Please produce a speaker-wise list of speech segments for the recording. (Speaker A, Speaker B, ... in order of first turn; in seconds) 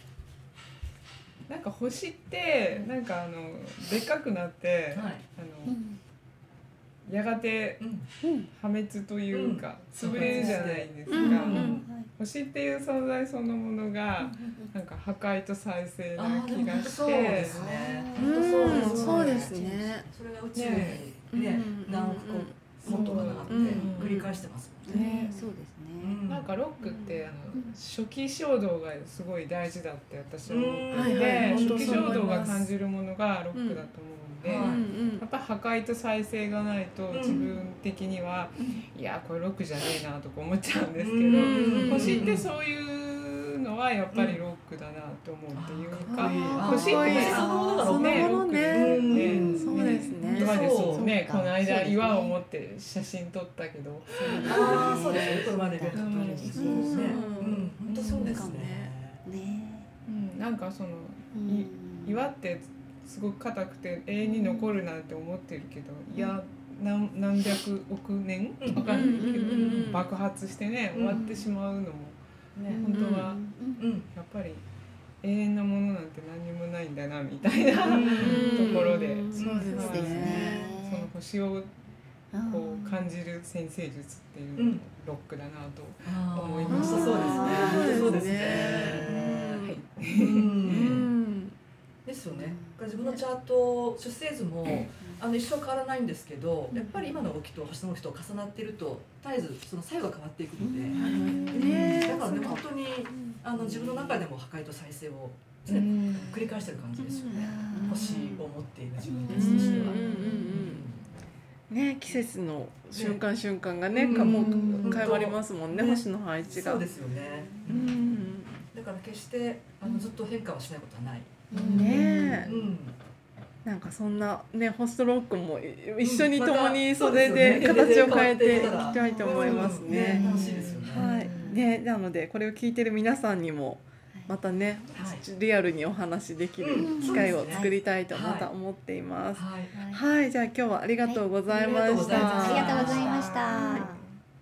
Speaker A: 1.5-5.7, 7.0-7.9, 8.5-17.5, 18.7-19.5, 20.5-21.1, 22.8-24.2, 24.9-25.3, 26.2-55.4, 56.0-56.9, 57.9-58.5, 60.1-73.4, 74.1-74.6, 75.2-81.7, 82.5-89.1, 89.6-91.0, 105.7-106.5, 109.7-109.9, 114.6-114.9, 130.3-130.8, 143.0-144.1
Speaker B: 4.9-5.2, 7.8-8.1, 9.3-11.9, 16.1-19.3, 20.1-25.0, 26.0-26.5, 30.4-32.6, 34.4-34.8, 37.1-37.6, 41.0-42.5, 44.1-44.4, 45.5-51.0, 54.4-59.2, 68.6-69.9, 70.9-71.2, 73.8-74.1, 77.8-78.7, 79.3-79.7, 86.0-89.4, 90.1-91.1, 92.0-111.1, 112.9-113.2, 113.9-118.0, 118.7-123.0, 126.0-131.6, 134.9-135.2, 136.6-138.5, 139.3-139.7, 141.5-143.1
Speaker C: 5.6-6.0, 8.2-8.5, 10.2-12.1, 14.3-14.7, 16.3-20.1, 23.2-24.1, 24.8-26.2, 26.8-27.8, 46.5-47.4, 49.1-52.4, 54.1-57.5, 58.1-58.6, 59.2-59.9, 61.3-62.2, 64.2-64.8, 68.9-69.6, 71.1-71.5, 72.7-73.9, 79.7-81.1, 82.3-83.1, 86.7-89.6, 92.3-93.2, 95.0-95.2, 96.7-97.2, 100.6-102.5, 103.1-104.2, 107.3-108.5, 109.0-110.5, 114.1-115.0, 116.8-117.9, 121.5-122.7, 128.4-131.7, 136.8-137.7, 139.7-140.0, 141.0-144.0
Speaker D: 11.1-11.8, 18.1-20.1, 21.3-24.3, 30.9-32.7, 33.5-33.9, 34.5-35.2, 41.3-42.4, 46.1-50.5, 56.6-58.9, 68.8-70.1, 77.9-80.7, 86.7-89.8, 90.6-91.5, 100.9-102.7, 107.0-108.2, 109.3-110.9, 111.7-116.9, 117.6-118.7, 121.6-122.5, 123.6-143.9